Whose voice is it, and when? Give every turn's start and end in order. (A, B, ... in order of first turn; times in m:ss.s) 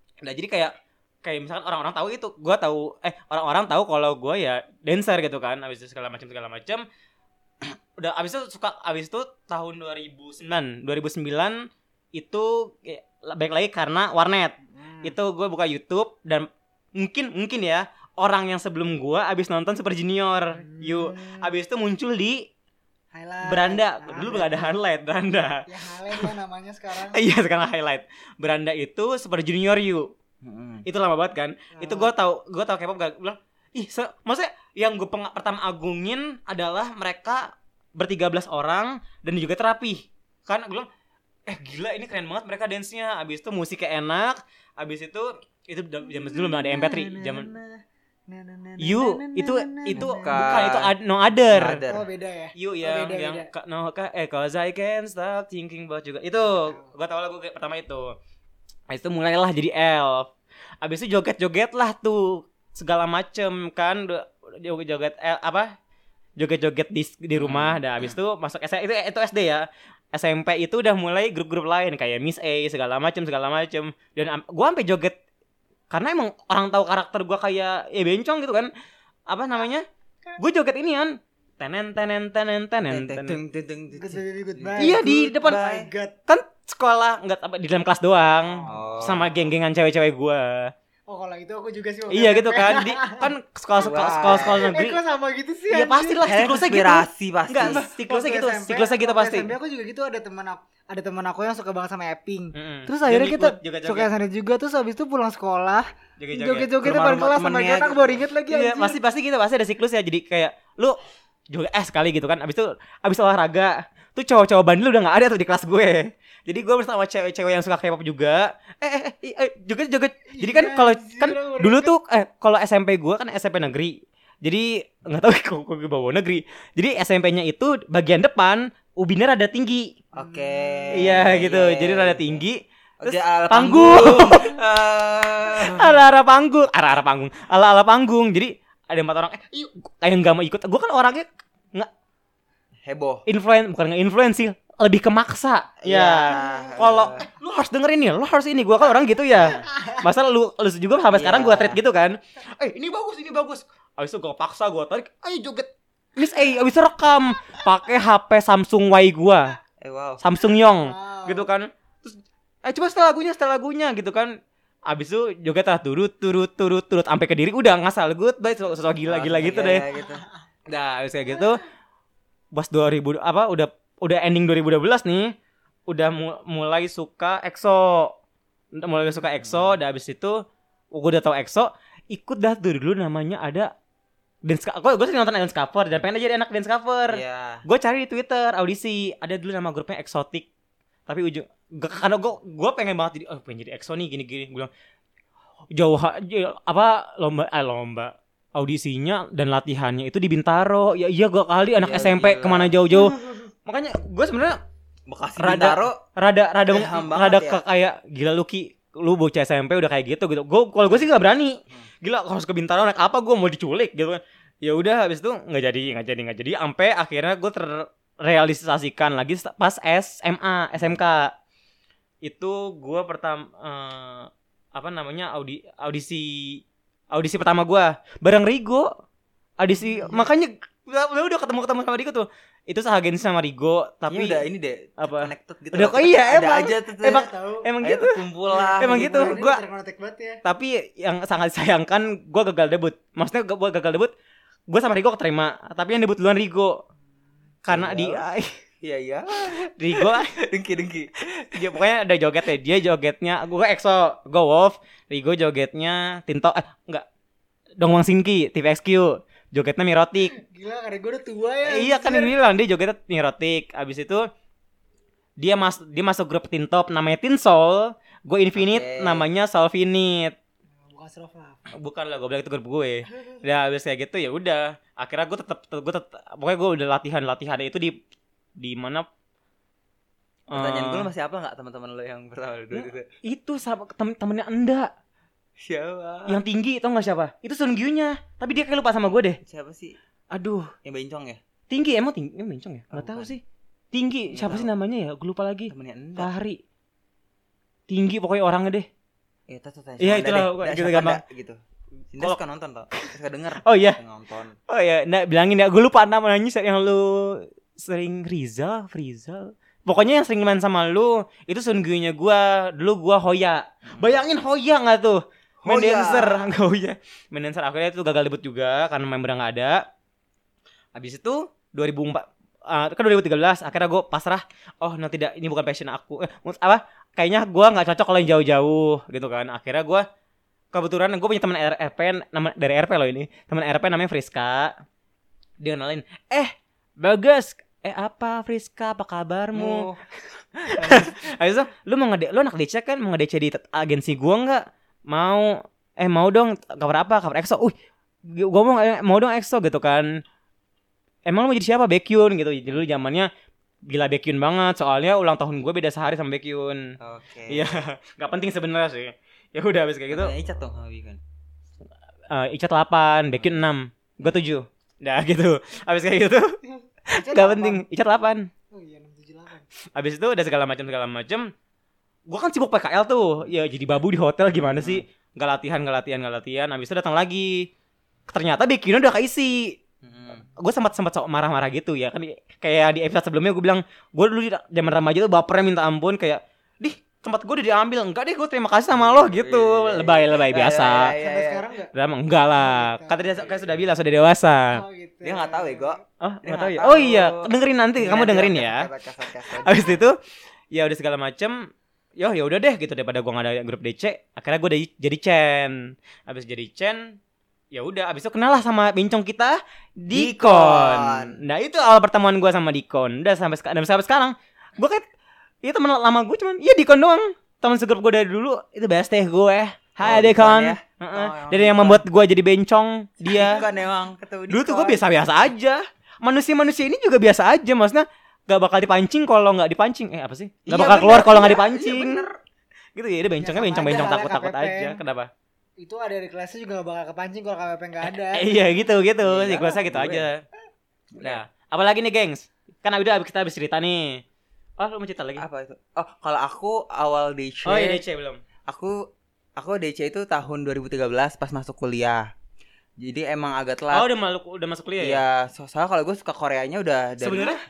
0:00.2-0:06.8 A
0:08.0-0:22.5 A
0:14.8-0:15.1 B
0:20.5-0:21.5 B
0:23.1-0:24.8 B
0:23.4-0:26.3 A
0:25.6-0:27.2 B
0:27.1-0:30.1 A
0:30.4-0:30.8 C
0:30.8-0:40.9 A
0:31.7-0:32.1 B
0:41.5-0:47.5 A
0:46.0-0:50.6 B
0:48.8-0:51.8 A
0:49.9-0:50.9 C
0:51.5-0:52.0 C
0:51.9-0:53.5 B
0:52.5-0:58.1 A
0:56.5-0:56.9 B
0:58.9-1:05.7 A
1:06.4-1:15.2 A
1:07.4-1:08.2 C
1:15.9-1:18.7 A
1:19.3-1:19.8 A
1:20.4-1:23.4 A
1:22.9-1:25.9 C
1:23.9-1:26.2 B
1:24.8-1:25.6 A
1:26.3-1:30.7 A
1:28.6-1:29.3 C
1:31.1-1:33.3 B
1:32.1-1:35.0 A
1:33.8-1:34.7 C
1:34.2-1:36.2 B
1:35.7-1:39.5 A
1:36.2-1:37.8 C
1:37.6-1:49.0 B
1:42.5-1:44.1 A
1:46.2-1:46.7 A
1:46.8-1:48.2 C
1:48.5-1:51.0 A
1:51.5-2:09.9 A
2:00.3-2:01.9 B
2:10.1-2:12.4 C
2:10.2-2:11.2 B
2:10.9-2:14.6 A
2:13.0-2:15.9 C
2:15.6-2:21.9 A
2:22.8-2:23.2 C
2:23.2-2:39.5 A
2:25.8-2:27.2 C
2:31.1-2:31.8 C
2:39.8-2:40.2 C
2:40.2-2:44.3 A
2:40.8-2:41.5 B
2:44.9-2:49.8 A
2:49.1-2:50.2 C
2:50.7-2:51.6 A
2:52.5-2:55.3 A
2:55.9-2:58.1 A
2:58.8-3:00.4 A
2:59.4-2:59.8 C
3:00.9-3:03.7 A
3:04.4-3:10.5 A
3:07.1-3:07.6 C
3:11.1-3:14.7 A
3:15.7-3:24.6 A
3:21.8-3:23.0 C
3:25.1-3:26.0 C
3:25.4-3:41.3 A
3:26.7-3:27.6 C
3:42.2-3:48.9 A
3:49.6-3:54.4 A
3:54.1-3:57.2 C
3:55.0-3:58.2 A
3:57.0-3:57.6 B
3:57.8-3:59.4 C
3:58.5-4:00.4 B
3:58.8-3:59.6 A
4:00.4-4:04.1 A
4:04.7-4:06.8 A
4:07.6-4:08.5 A
4:07.7-4:08.2 C
4:08.8-4:11.8 C
4:09.6-4:10.4 A
4:11.5-4:17.0 A
4:17.8-4:20.3 A
4:20.3-4:22.3 B
4:21.6-4:24.2 A
4:25.4-4:30.4 A
4:28.5-4:29.2 C
4:30.9-4:31.6 B
4:31.7-4:38.0 A
4:38.6-4:39.0 A
4:40.5-4:41.1 A
4:40.5-4:43.1 C
4:42.7-4:44.9 A
4:45.6-4:46.4 C
4:46.3-4:49.4 A
4:49.4-4:50.0 C
4:50.3-4:50.7 A
4:50.8-4:51.4 C
4:51.7-4:56.6 A
4:52.9-4:53.3 C
4:54.3-4:54.7 C
4:55.7-4:56.3 C
4:57.9-4:58.9 A
4:59.5-5:01.6 C
5:00.0-5:01.2 A
5:02.1-5:04.5 C
5:02.9-5:04.0 A
5:04.7-5:19.8 A
5:15.6-5:16.5 C
5:21.0-5:30.0 A
5:30.7-5:34.7 A
5:35.6-5:39.9 A
5:39.5-5:40.0 C
5:40.6-5:41.2 C
5:40.7-5:47.7 A
5:48.2-5:50.2 A
5:51.3-5:53.3 A
5:53.9-5:56.9 A
5:57.0-5:57.7 C
5:57.5-6:00.3 A
6:00.1-6:01.2 C
6:02.3-6:06.6 A
6:07.1-6:07.8 B
6:07.1-6:08.5 A
6:08.7-6:09.6 B
6:10.0-6:11.5 A
6:12.3-6:17.7 A
6:14.6-6:15.0 C
6:18.3-6:19.8 A
6:20.0-6:20.4 C
6:20.3-6:31.1 A
6:28.9-6:31.6 C
6:31.1-6:31.9 B
6:31.9-6:34.8 A
6:32.5-6:33.4 B
6:34.7-6:36.0 B
6:35.2-6:40.0 C
6:36.2-6:38.9 A
6:39.6-6:40.1 A
6:40.7-6:47.2 A
6:47.7-6:55.0 A
6:50.1-6:51.4 C
6:55.6-7:03.6 A
7:00.0-7:02.0 C
7:03.3-7:05.0 C
7:04.5-7:12.2 A
7:10.7-7:12.4 C
7:13.0-7:15.3 A
7:13.4-7:15.0 B
7:15.8-7:18.6 B
7:18.0-7:20.4 A
7:19.2-7:20.3 C
7:21.2-7:24.2 A
7:24.8-7:25.4 A
7:25.4-7:28.0 C
7:27.6-7:28.4 A
7:28.6-7:29.0 C
7:29.6-7:32.2 C
7:33.0-7:34.1 C
7:33.9-7:35.2 A
7:35.0-7:37.5 C
7:37.2-7:37.6 A